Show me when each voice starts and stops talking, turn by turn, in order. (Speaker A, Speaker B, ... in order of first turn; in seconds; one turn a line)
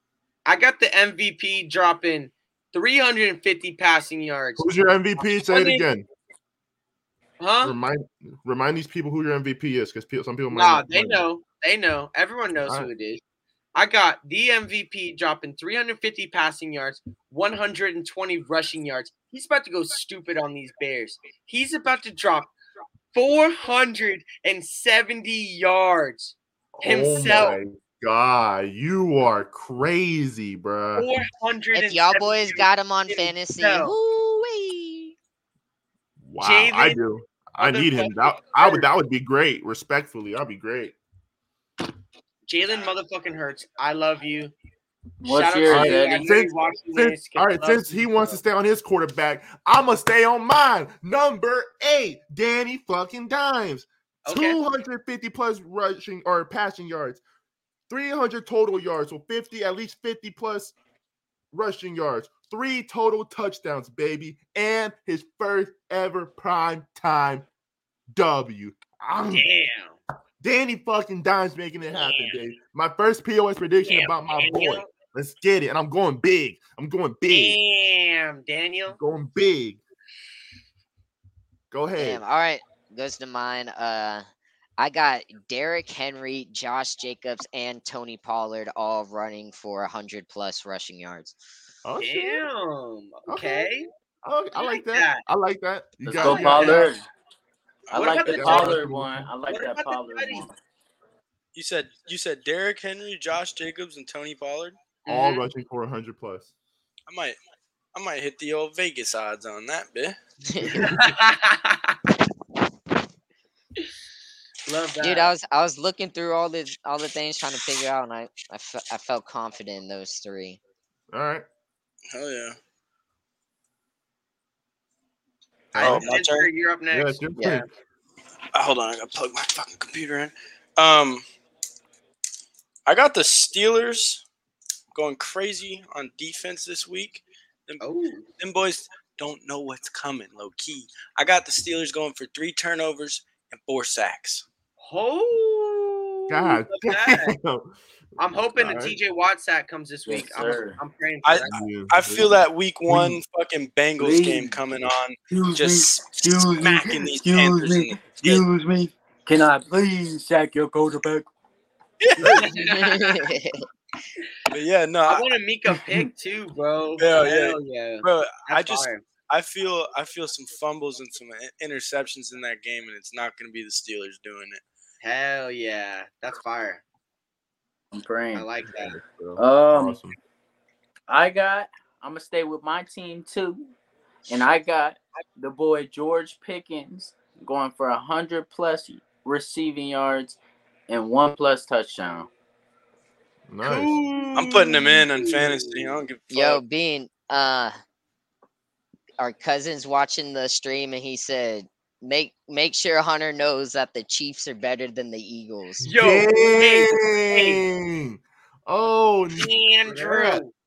Speaker A: 0.4-4.7
Speaker B: 4.6-6.1
Speaker A: 5.2-5.8
Speaker A: 7.4-7.7
Speaker B: 7.6-11.3
Speaker A: 10.5-13.2
Speaker B: 12.6-12.9
Speaker A: 13.7-22.5
Speaker A: 23.1-27.6
Speaker B: 26.8-31.1
Speaker A: 30.9-34.0
Speaker C: 31.7-35.1
Speaker B: 36.2-41.0
Speaker A: 36.4-37.0
Speaker A: 37.6-38.9
Speaker A: 42.5-44.5
Speaker D: 45.2-46.3
Speaker A: 45.2-48.4
Speaker B: 45.6-57.2
Speaker A: 54.2-54.6
Speaker B: 57.9-60.7
Speaker B: 61.5-67.5
Speaker B: 68.1-69.4
Speaker A: 69.3-70.0
Speaker B: 70.4-77.6
Speaker A: 71.9-72.4
Speaker A: 73.8-74.9
Speaker A: 77.3-79.0
Speaker B: 78.9-79.8
Speaker B: 81.7-82.2
Speaker C: 82.0-84.2
Speaker C: 84.8-91.3
Speaker B: 91.8-92.4
Speaker A: 92.0-93.9
Speaker B: 93.3-93.7
Speaker B: 94.2-96.9
Speaker A: 94.6-95.2
Speaker D: 96.1-97.0
Speaker A: 96.2-96.9
Speaker E: 97.9-98.2
Speaker D: 97.9-100.6
Speaker A: 97.9-98.8
Speaker B: 98.2-99.3
Speaker A: 99.5-100.5
Speaker E: 101.5-104.8
Speaker A: 105.0-105.4
Speaker B: 105.1-106.5
Speaker E: 107.1-107.4
Speaker E: 107.9-110.2
Speaker C: 110.5-110.9
Speaker A: 110.6-112.0
Speaker A: 114.7-115.3
Speaker C: 115.0-120.6
Speaker B: 121.1-121.4
Speaker E: 122.1-122.6
Speaker B: 125.7-126.1
Speaker E: 125.7-126.5
Speaker A: 125.7-127.6
Speaker B: 126.9-127.6
Speaker E: 128.5-131.2
Speaker E: 132.8-134.2
Speaker E: 134.9-137.8
Speaker A: 137.8-138.2
Speaker E: 138.4-144.4
Speaker A: 144.8-147.4
Speaker B: 146.3-147.7
Speaker A: 148.2-151.7
Speaker B: 148.5-149.0
Speaker D: 150.1-150.8
Speaker E: 151.2-158.4
Speaker B: 151.5-152.4
Speaker B: 152.9-153.2
Speaker D: 154.0-154.6
Speaker D: 155.3-161.3
Speaker E: 162.0-162.5
Speaker A: 162.2-163.3
Speaker C: 162.5-163.6
Speaker E: 164.5-165.3
Speaker A: 165.1-169.0
Speaker E: 167.0-174.6
Speaker A: 175.0-176.8
Speaker D: 177.9-178.5
Speaker A: 178.3-179.0
Speaker B: 178.8-180.2
Speaker D: 179.4-180.0
Speaker D: 181.1-183.7
Speaker D: 184.3-192.3
Speaker B: 193.5-193.9
Speaker A: 193.6-196.0
Speaker E: 194.3-196.6
Speaker C: 196.3-197.8
Speaker C: 199.2-205.9
Speaker B: 205.8-210.4
Speaker A: 205.8-207.6
Speaker A: 209.3-210.5